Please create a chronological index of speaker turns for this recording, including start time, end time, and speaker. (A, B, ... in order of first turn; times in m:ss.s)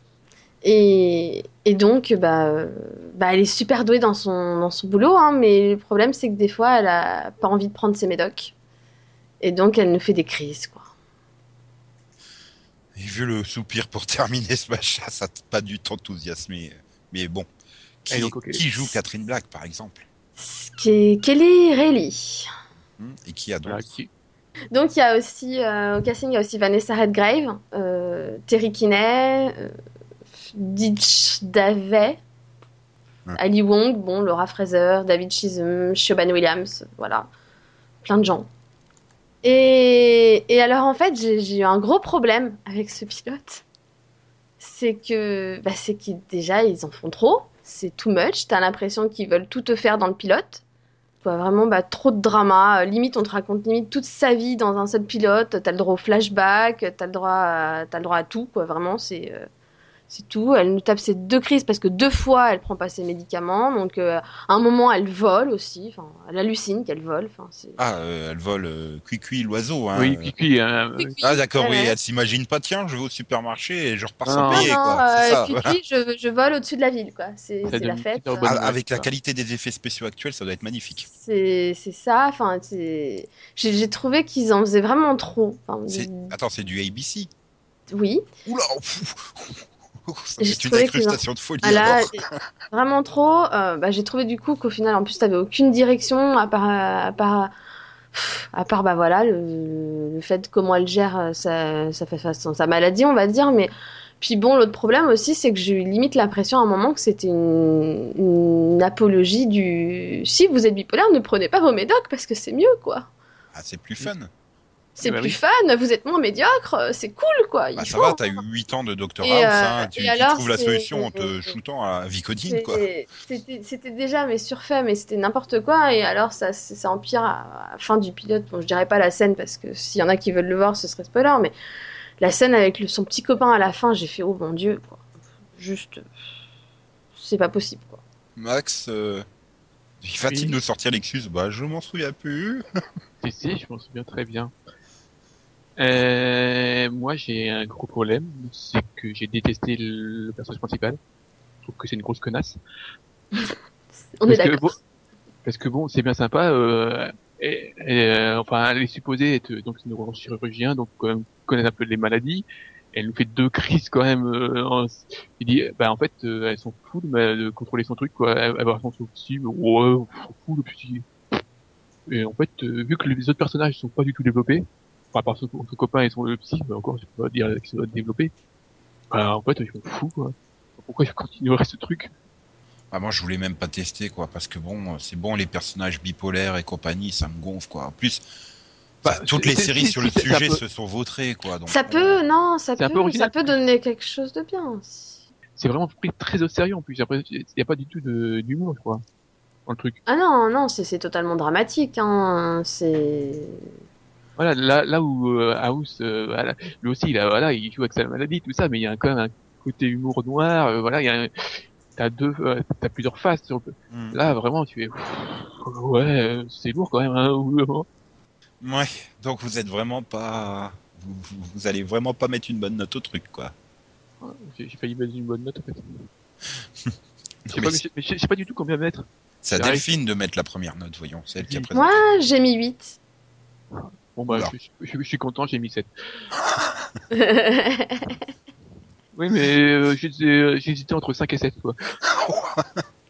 0:00.6-0:08.5 A
0:09.4-0:10.9 A
0:13.0-0:17.5 B
0:18.0-0:20.1 B
0:18.1-0:18.6 C
0:20.4-0:22.5 A
0:23.0-0:23.9 B
0:23.6-0:24.1 C
0:24.7-0:29.7 A
0:30.5-0:32.2 A
0:33.4-0:37.3 A
0:38.0-0:38.5 A
0:39.4-0:43.6 A
0:44.6-0:50.6 A
0:51.2-0:59.5 A
1:00.1-1:07.8 A
1:07.8-1:10.3 B
1:09.9-1:11.2 C
1:11.0-1:11.9 A
1:11.2-1:15.8 B
1:14.2-1:14.7 C
1:14.5-1:18.6 A
1:17.6-1:19.1 C
1:18.4-1:21.1 B
1:21.1-1:26.3 A
1:25.9-1:27.3 B
1:27.9-1:28.2 A
1:28.4-1:32.5 B
1:30.4-1:37.5 A
1:38.1-1:53.1 A
1:53.5-1:54.3 B
1:55.0-1:58.3 A
1:55.0-1:55.4 C
1:57.8-2:02.8 B
1:59.2-2:01.5 A
2:02.5-2:11.5 A
2:12.2-2:15.0 A
2:15.6-2:16.1 A
2:17.2-2:18.0 A
2:18.4-2:19.2 B
2:20.0-2:22.6 B
2:20.3-2:20.6 C
2:23.2-2:24.5 C
2:25.8-2:31.0 C
2:31.6-2:32.6 C
2:34.2-2:34.6 A
2:34.2-2:34.8 C
2:35.4-2:51.0 C
2:52.1-2:58.3 C
2:59.1-3:02.1 C
3:02.9-3:08.2 B
3:09.0-3:10.6 C
3:09.0-3:12.2 B
3:11.7-3:15.2 A
3:12.8-3:13.6 C
3:15.6-3:19.0 C
3:19.7-3:20.0 C
3:20.1-3:23.7 A
3:24.4-3:37.8 C
3:33.9-3:34.2 B
3:38.6-3:43.5 B
3:44.2-3:46.1 C
3:47.4-3:47.8 B
3:47.5-3:49.9 C
3:49.4-3:52.0 B
3:51.4-3:51.7 C
3:51.8-3:53.0 A
3:53.7-3:56.3 C
3:57.1-3:58.2 A
3:59.1-4:01.8 C
4:02.0-4:02.8 B